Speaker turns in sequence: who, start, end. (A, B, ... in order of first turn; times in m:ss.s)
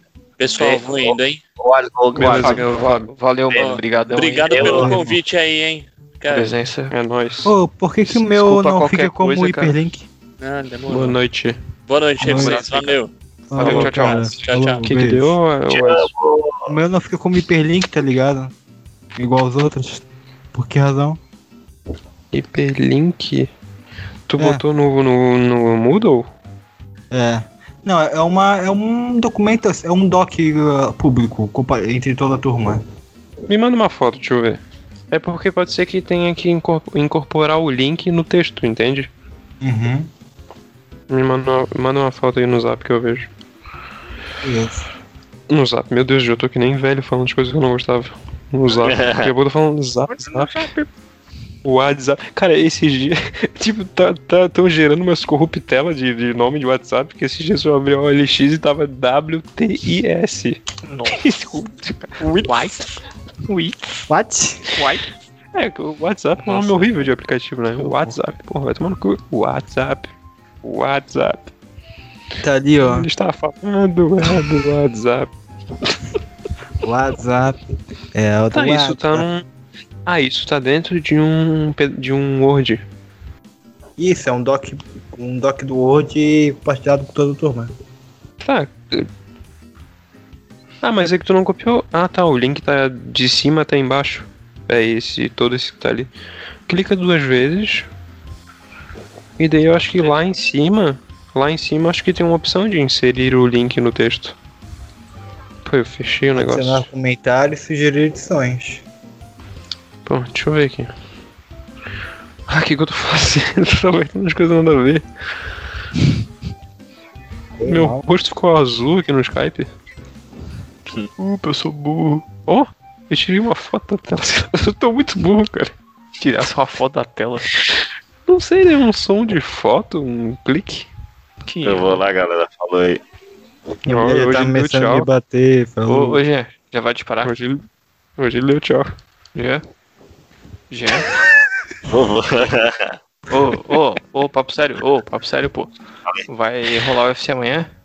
0:00.4-0:01.4 A
0:00.6-0:02.7 B
0:02.1-0:03.1 C
0:02.2-0:05.1 D
0:03.5-0:06.5 A
0:04.5-0:05.1 B
0:04.6-0:05.0 E
0:06.3-0:06.9 D
0:06.9-0:07.5 C
0:07.4-0:10.1 E
0:08.1-0:09.8 D
0:10.4-0:11.2 A
0:10.9-0:11.6 C
0:11.9-0:13.1 A
0:12.2-0:12.7 E
0:12.3-0:12.8 D
0:12.3-0:12.9 C
0:13.5-0:15.3 E
0:13.6-0:14.4 D
0:13.6-0:14.1 C
0:13.6-0:14.9 A
0:14.8-0:16.1 C
0:15.7-0:16.8 B
0:16.7-0:18.5 E
0:19.2-0:21.2 E
0:22.3-0:23.5 C
0:24.3-0:26.3 C
0:24.4-0:24.6 E
0:27.1-0:32.8 E
0:33.5-0:34.6 C
0:35.1-0:39.1 C
0:39.6-0:40.1 E
0:41.1-0:43.3 C
0:44.4-0:44.9 E
0:45.5-0:50.6 C
0:48.8-0:49.3 B
0:50.1-0:50.9 D
0:51.6-1:00.6 C
1:00.8-1:02.9 D
1:01.2-1:01.5 C
1:02.2-1:02.7 C
1:03.5-1:04.0 D
1:04.1-1:04.8 E
1:04.8-1:05.1 D
1:05.5-1:10.1 C
1:06.4-1:07.0 D
1:07.8-1:08.3 D
1:10.6-1:11.5 C
1:12.4-1:13.1 E
1:12.8-1:15.3 C
1:16.8-1:17.6 E
1:18.1-1:19.3 E
1:18.5-1:19.4 C
1:20.1-1:22.8 C
1:24.0-1:27.7 E
1:28.4-1:29.1 C
1:30.8-1:36.1 C
1:36.7-1:37.9 C
1:39.4-1:44.4 C
1:45.6-1:46.9 C
1:46.3-1:48.8 E
1:50.1-1:50.9 C
1:52.5-1:55.0 C
1:57.6-1:58.0 E
1:57.7-1:59.7 C
2:01.2-2:02.3 D
2:02.5-2:05.7 C
2:06.2-2:07.5 D
2:08.3-2:10.9 C
2:11.5-2:12.0 D
2:11.6-2:13.0 B
2:13.8-2:16.2 E
2:13.9-2:15.1 C
2:15.9-2:17.4 D
2:17.2-2:17.6 C
2:18.2-2:18.9 C
2:19.4-2:19.6 D
2:20.7-2:21.1 D
2:21.9-2:22.9 B
2:23.3-2:25.7 D
2:26.3-2:27.7 D